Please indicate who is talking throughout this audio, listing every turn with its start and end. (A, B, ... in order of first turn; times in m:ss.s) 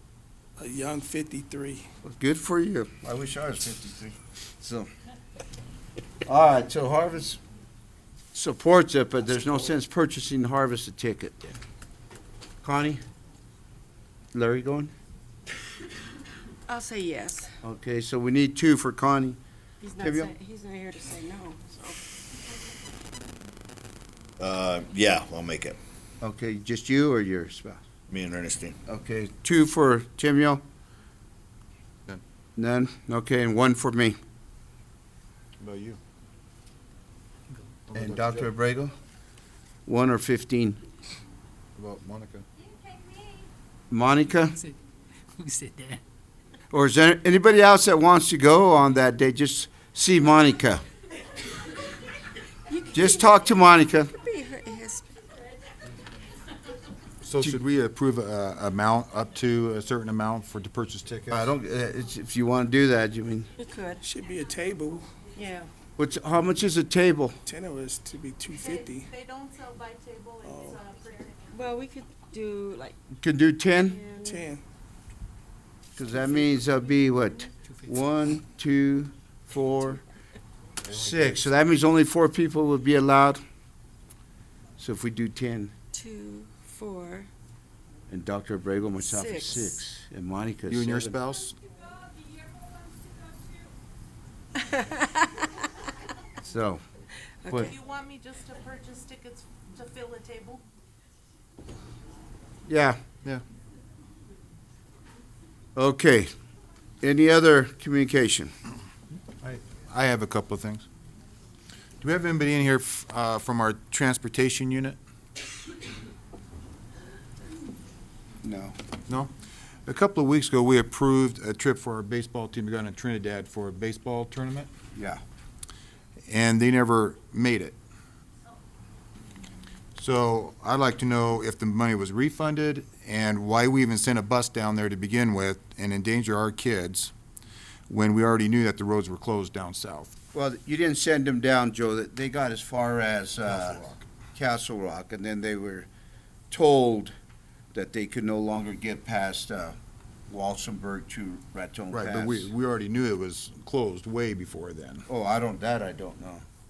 0:00.6-0:01.9 A
0:02.0-0:04.9 B
0:06.2-0:07.4 B
0:08.3-0:11.5 B
0:12.6-0:13.0 B
0:14.3-0:14.9 B
0:16.7-0:17.5 C
0:17.6-0:19.4 B
0:19.8-0:22.0 C
0:20.0-0:20.3 B
0:24.4-0:25.8 D
0:26.2-0:27.8 B
0:28.1-0:28.8 D
0:28.8-0:30.6 B
0:32.6-0:34.2 B
0:35.6-0:36.0 E
0:37.9-0:38.5 E
0:37.9-0:38.9 B
0:39.8-0:40.8 B
0:41.8-0:42.4 E
0:43.9-0:44.6 B
0:46.7-0:50.8 B
0:52.7-0:53.5 C
0:52.9-0:54.1 B
0:54.0-0:55.2 C
0:57.2-1:01.4 E
1:01.3-1:03.5 B
1:03.6-1:04.0 C
1:04.0-1:05.1 A
1:05.3-1:05.7 C
1:06.0-1:07.4 B
1:07.4-1:09.1 A
1:08.6-1:11.6 F
1:10.4-1:10.8 A
1:11.5-1:12.9 C
1:13.1-1:14.0 B
1:13.7-1:14.4 C
1:14.2-1:14.6 A
1:16.0-1:20.0 B
1:20.8-1:23.4 B
1:24.8-1:25.7 B
1:25.9-1:27.3 C
1:28.1-1:31.1 B
1:29.0-1:29.8 C
1:30.7-1:31.6 E
1:34.7-1:35.1 C
1:36.4-1:36.8 B
1:37.4-1:37.7 C
1:37.7-1:40.6 F
1:42.7-1:43.0 B
1:45.7-1:46.3 B
1:47.0-1:48.5 B
1:49.4-1:50.8 E
1:52.0-1:55.0 E
1:58.4-1:58.8 B
1:59.8-2:04.7 E
2:04.9-2:05.2 B
2:06.3-2:07.8 E
2:10.0-2:17.1 E
2:17.9-2:20.1 E
2:20.3-2:23.8 B
2:23.5-2:24.1 E
2:24.3-2:25.9 B
2:26.5-2:27.1 B
2:27.7-2:29.8 B
2:30.3-2:32.5 B
2:31.9-2:35.1 E
2:35.1-2:36.4 B